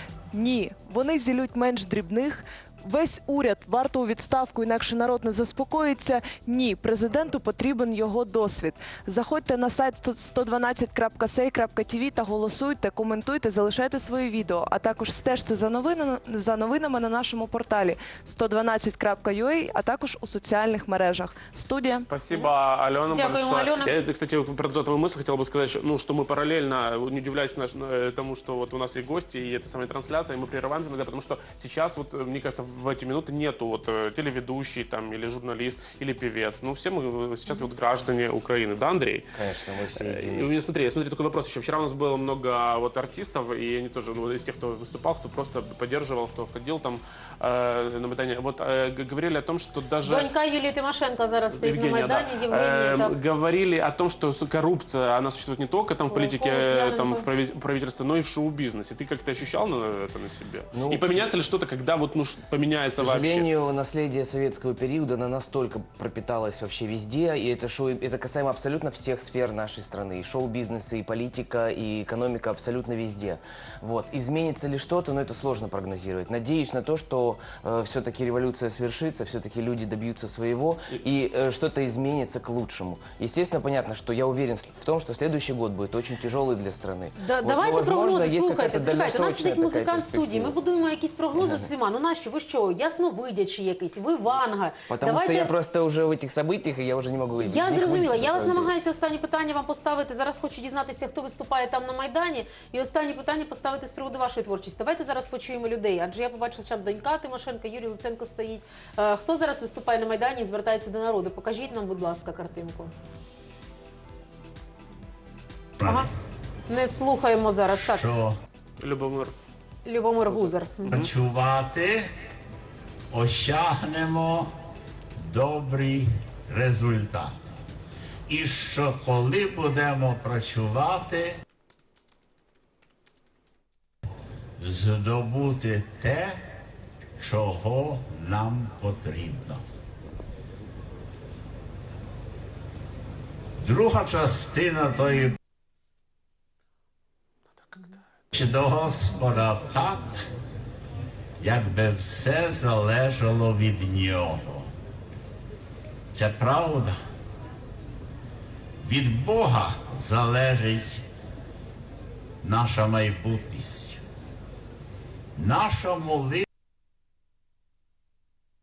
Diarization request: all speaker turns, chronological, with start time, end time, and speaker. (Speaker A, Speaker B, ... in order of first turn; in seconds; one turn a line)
Speaker A: 0.3-22.1
Speaker B: 22.1-39.3
Speaker C: 23.1-23.9
Speaker D: 39.3-40.5
Speaker B: 40.0-50.3
Speaker C: 50.0-53.1
Speaker B: 51.5-63.5
Speaker C: 56.1-57.2
Speaker D: 60.7-61.2
Speaker D: 63.0-90.5
Speaker C: 87.2-95.5
Speaker D: 91.3-91.7
Speaker D: 94.9-98.7
Speaker C: 97.4-112.9
Speaker E: 115.8-116.1
Speaker C: 115.8-116.1
Speaker C: 116.7-118.0
Speaker E: 117.7-118.4
Speaker B: 118.8-119.3
Speaker C: 119.8-121.0
Speaker B: 120.3-121.1
Speaker E: 120.8-122.1
Speaker E: 123.1-124.5
Speaker E: 125.2-127.5
Speaker E: 128.3-131.4
Speaker E: 134.6-136.4
Speaker E: 137.2-139.6
Speaker E: 143.6-145.4
Speaker B: 147.7-148.0
Speaker E: 148.3-150.2
Speaker E: 151.4-154.7
Speaker E: 156.1-157.0
Speaker E: 158.8-161.0
Speaker E: 162.4-164.0
Speaker E: 165.3-166.4